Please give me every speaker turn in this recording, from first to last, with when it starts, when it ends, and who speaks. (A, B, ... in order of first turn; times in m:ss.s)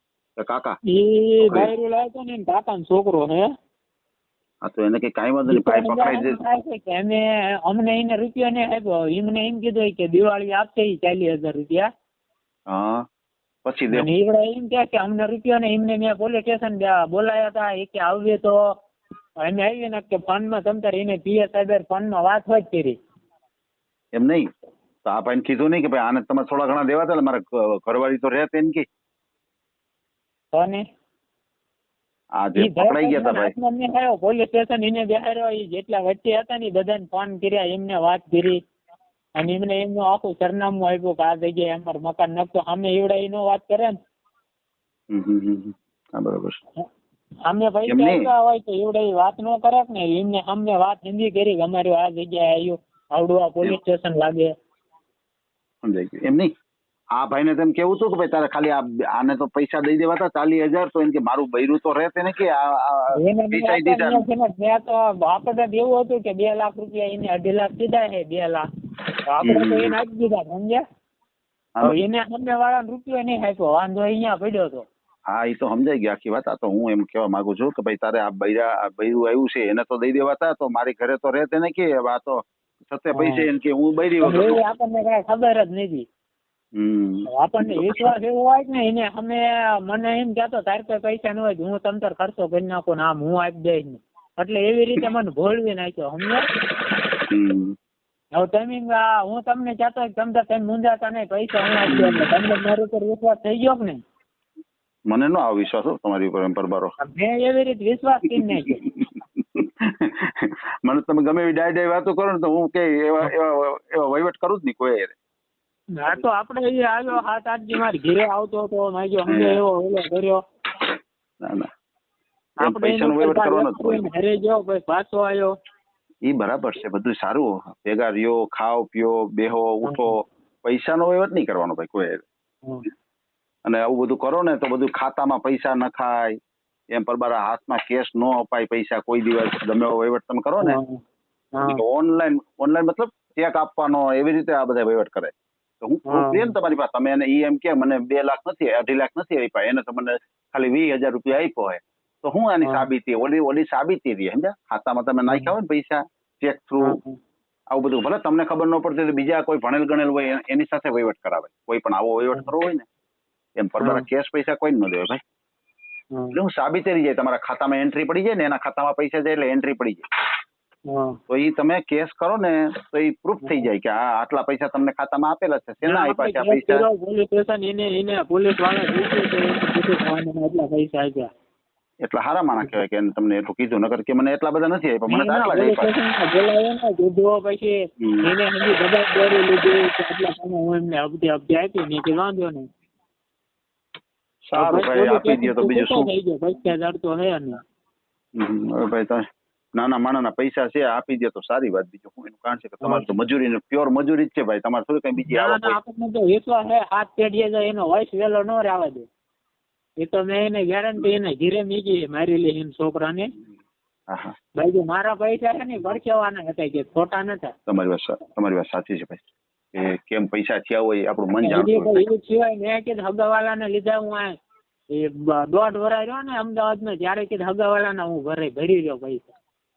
0:00.4-0:00.8 A
0:00.9-0:03.5 B
0:01.4-0:01.7 A
0:04.6-0:06.4 A
0:05.5-0:11.9 B
0:12.7-0:13.0 A
0:13.6-0:14.1 A
0:13.9-0:18.6 B
0:19.4-0:23.0 B
0:24.2-0:24.4 A
0:25.0-0:28.8 A
0:30.5-0:30.8 B
0:32.4-0:33.5 A
0:32.6-0:38.6 B
0:39.4-0:44.0 B
0:45.1-0:46.6 A
0:47.4-0:54.5 B
0:47.8-0:48.3 A
0:55.8-0:56.5 A
0:57.2-1:04.2 A
1:03.2-1:08.6 B
1:09.3-1:10.8 B
1:09.4-1:10.0 A
1:11.8-1:14.8 B
1:15.3-1:24.6 A
1:23.2-1:23.4 B
1:24.2-1:26.0 B
1:26.8-1:28.1 A
1:27.3-1:36.4 B
1:37.3-1:37.7 A
1:38.4-1:44.0 B
1:41.9-1:42.3 A
1:45.1-1:46.9 A
1:47.0-1:48.8 B
1:48.9-1:55.2 A
1:56.0-2:00.4 B
1:59.3-1:59.6 A
2:01.4-2:01.7 A
2:02.6-2:05.5 B
2:02.6-2:04.1 A
2:06.3-2:12.2 A
2:13.6-2:16.4 A
2:16.9-2:20.8 A
2:20.6-2:21.0 B
2:21.5-2:21.8 B
2:21.6-2:37.0 A
2:26.1-2:26.5 B
2:36.8-2:37.2 B
2:37.7-2:42.8 A
2:43.6-2:45.2 A
2:43.8-2:44.0 B
2:46.3-2:50.0 A
2:50.9-2:51.2 B
2:51.3-2:56.8 A
2:55.8-3:01.3 B
3:02.0-3:05.9 A
3:05.1-3:12.7 B
3:08.0-3:08.3 A
3:14.5-3:16.1 A
3:14.5-3:17.6 B
3:18.4-3:19.2 A
3:19.8-3:25.8 A
3:22.8-3:23.1 B
3:25.2-3:29.0 B
3:30.0-3:33.3 B
3:34.6-3:37.5 B
3:37.7-3:42.0 A
3:41.3-3:44.3 B
3:44.9-3:49.3 B